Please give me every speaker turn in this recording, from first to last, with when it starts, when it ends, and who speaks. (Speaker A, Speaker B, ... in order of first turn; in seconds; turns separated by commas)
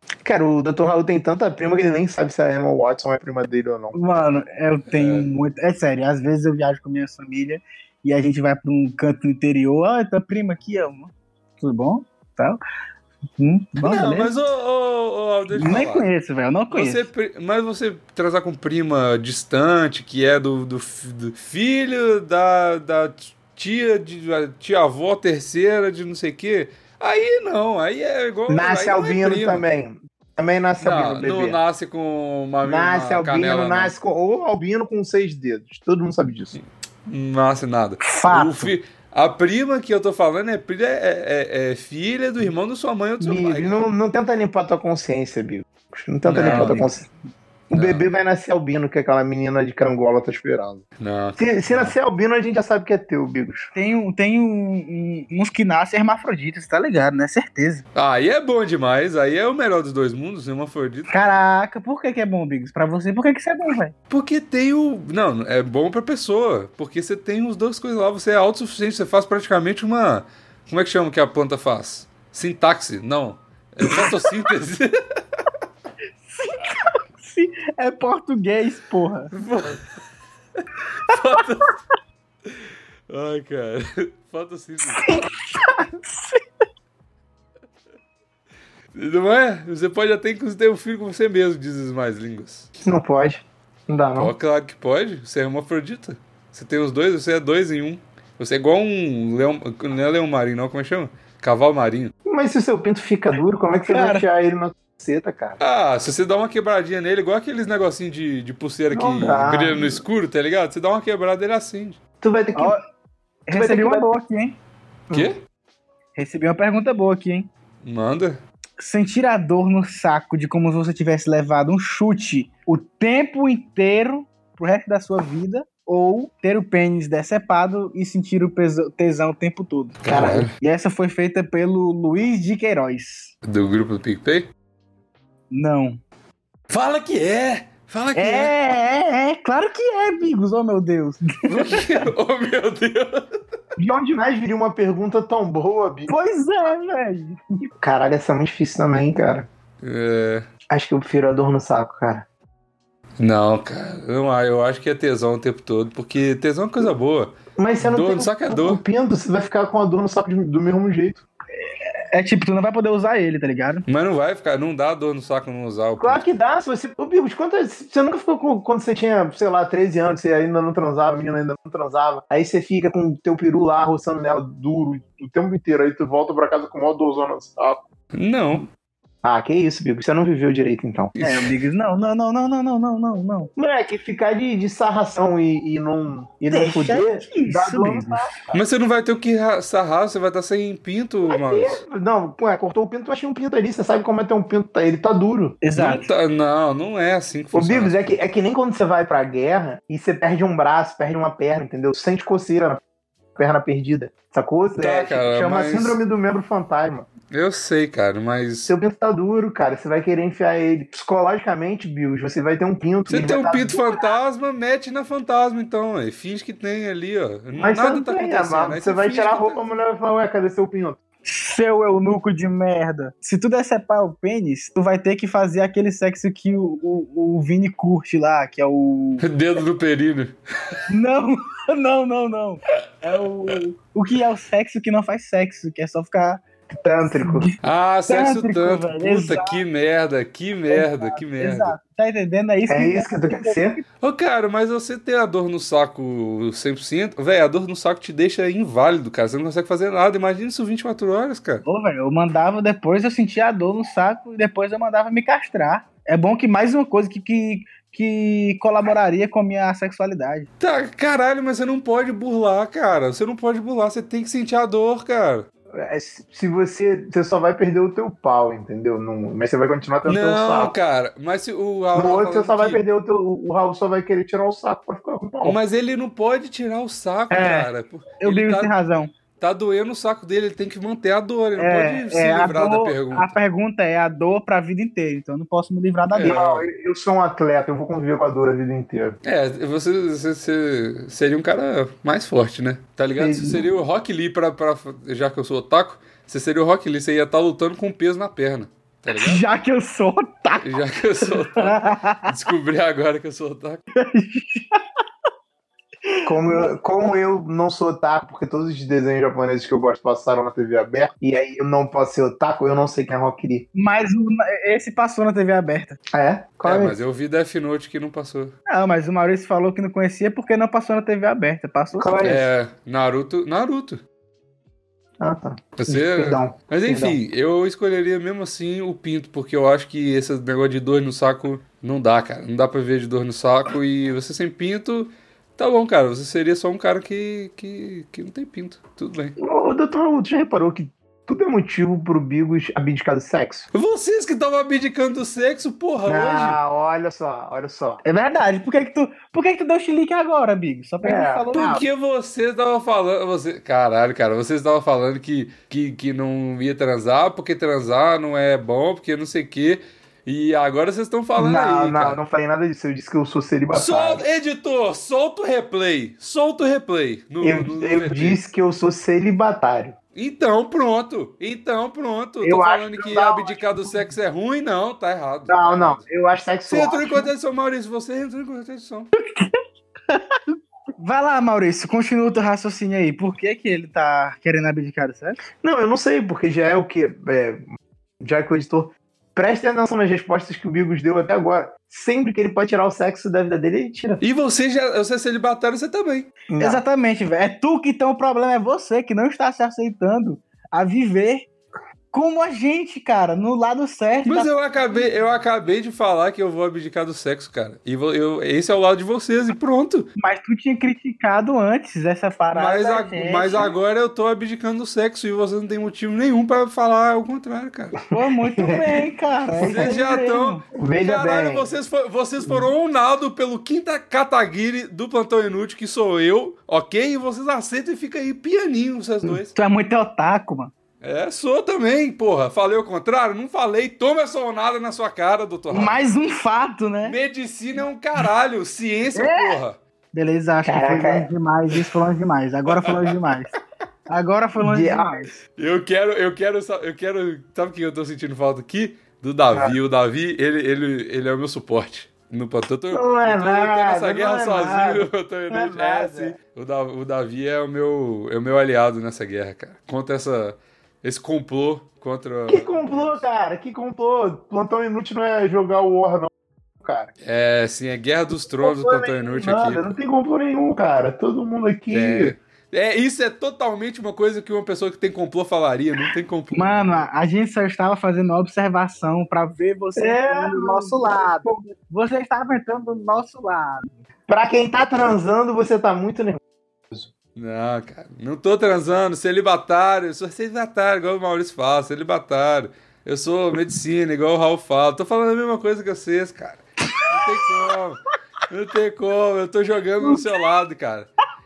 Speaker A: 0.2-4.0, Speaker B: 3.9-12.6, Speaker C: 4.9-5.3, Speaker B: 13.4-14.3, Speaker C: 13.8-16.1, Speaker B: 15.5-17.1, Speaker C: 16.7-29.6, Speaker A: 28.5-31.6, Speaker C: 30.8-33.9, Speaker A: 32.6-36.5, Speaker C: 36.5-43.8, Speaker B: 38.0-38.7, Speaker A: 43.2-47.0, Speaker C: 46.2-46.9, Speaker B: 46.3-47.0, Speaker A: 47.7-50.8, Speaker C: 47.7-48.0, Speaker C: 51.0-51.9, Speaker A: 51.4-53.7, Speaker B: 53.7-57.8, Speaker C: 57.9-61.1, Speaker B: 61.1-63.9, Speaker C: 64.1-75.4, Speaker B: 76.3-79.3, Speaker C: 79.3-79.9, Speaker C: 81.0-81.8, Speaker B: 81.1-81.4, Speaker C: 83.1-85.3, Speaker B: 84.8-86.4, Speaker C: 88.9-92.7, Speaker A: 92.8-94.3, Speaker C: 94.2-102.1, Speaker A: 102.2-105.6, Speaker B: 103.9-104.2, Speaker C: 105.6-112.0, Speaker A: 108.9-110.0, Speaker A: 112.2-112.8, Speaker B: 112.5-112.8, Speaker B: 113.5-114.6, Speaker A: 113.5-114.1, Speaker C: 115.1-115.4, Speaker B: 116.1-117.5, Speaker C: 117.8-118.4, Speaker B: 118.8-133.3, Speaker C: 130.0-130.5, Speaker A: 130.1-130.4, Speaker C: 133.4-134.5, Speaker B: 135.5-136.0, Speaker C: 136.7-138.5, Speaker B: 138.2-141.9, Speaker C: 141.5-143.4, Speaker A: 143.8-146.1, Speaker B: 146.1-147.6, Speaker A: 147.8-149.5, Speaker C: 149.8-150.4, Speaker A: 150.7-152.2, Speaker C: 153.2-158.8, Speaker A: 157.6-161.2, Speaker B: 161.6-163.8, Speaker C: 163.8-166.2, Speaker A: 166.0-177.8, Speaker C: 178.1-178.7, Speaker A: 179.2-181.1, Speaker C: 181.2-181.5, Speaker B: 181.2-183.5, Speaker A: 183.6-188.6, Speaker B: 186.5-188.3, Speaker C: 188.5-191.8, Speaker A: 191.3-195.6, Speaker B: 195.6-196.0, Speaker C: 195.8-197.9, Speaker A: 197.5-202.8, Speaker A: 203.3-207.1, Speaker C: 204.8-206.0, Speaker C: 207.3-208.7, Speaker A: 208.7-214.1, Speaker C: 213.1-219.8, Speaker A: 217.6-221.0, Speaker B: 221.2-229.2, Speaker C: 229.2-230.8, Speaker B: 230.9-239.6, Speaker A: 236.8-237.5, Speaker C: 237.6-241.8, Speaker B: 240.7-243.8, Speaker A: 242.7-243.8, Speaker C: 244.0-251.6, Speaker B: 251.6-260.5, Speaker C: 260.6-265.4, Speaker A: 265.7-270.7, Speaker C: 270.1-272.8, Speaker A: 271.9-275.6, Speaker C: 275.4-278.7, Speaker B: 277.3-279.1, Speaker C: 279.4-283.3, Speaker B: 281.6-286.4, Speaker C: 286.1-286.7, Speaker A: 286.2-289.2, Speaker C: 289.2-299.4, Speaker A: 293.2-293.6, Speaker B: 299.1-302.3, Speaker C: 300.6-303.8, Speaker B: 303.9-304.8, Speaker B: 306.1-306.7, Speaker A: 306.2-313.6, Speaker B: 313.7-316.0, Speaker A: 316.1-317.0, Speaker C: 316.6-318.5, Speaker B: 318.7-322.1, Speaker A: 322.0-322.4, Speaker C: 322.2-324.0, Speaker A: 325.2-327.2, Speaker C: 325.8-339.3, Speaker A: 339.4-343.7, Speaker C: 343.7-346.6, Speaker A: 346.0-348.0, Speaker B: 348.0-351.8, Speaker A: 351.0-351.8, Speaker C: 351.5-362.2, Speaker A: 361.4-364.2, Speaker C: 363.7-368.4, Speaker A: 367.4-369.9, Speaker C: 370.1-376.0, Speaker A: 372.4-373.7, Speaker A: 375.5-377.3, Speaker C: 376.7-379.1, Speaker B: 379.3-385.4, Speaker A: 385.6-387.7, Speaker A: 388.2-394.2, Speaker C: 394.2-396.3, Speaker A: 396.5-396.8, Speaker B: 396.6-401.5, Speaker B: 402.1-405.0, Speaker C: 404.2-410.1, Speaker B: 410.2-413.7, Speaker C: 412.5-418.0, Speaker B: 418.1-420.6, Speaker A: 418.6-419.0, Speaker A: 419.5-419.9, Speaker C: 419.6-429.5, Speaker A: 420.7-421.7, Speaker A: 422.4-422.7, Speaker B: 429.5-430.7, Speaker C: 431.0-436.0, Speaker B: 435.7-437.2, Speaker C: 437.0-439.8, Speaker B: 439.1-439.6, Speaker B: 440.1-443.5, Speaker A: 440.6-441.3, Speaker C: 442.7-443.2, Speaker B: 444.1-445.4, Speaker A: 444.6-445.3, Speaker C: 445.6-463.2, Speaker A: 452.9-456.3, Speaker A: 462.5-467.1, Speaker C: 467.2-469.8, Speaker A: 468.6-472.3, Speaker C: 471.9-477.0, Speaker B: 476.5-484.0, Speaker A: 479.9-481.6, Speaker A: 484.3-487.1, Speaker C: 487.4-501.1, Speaker B: 500.0-500.3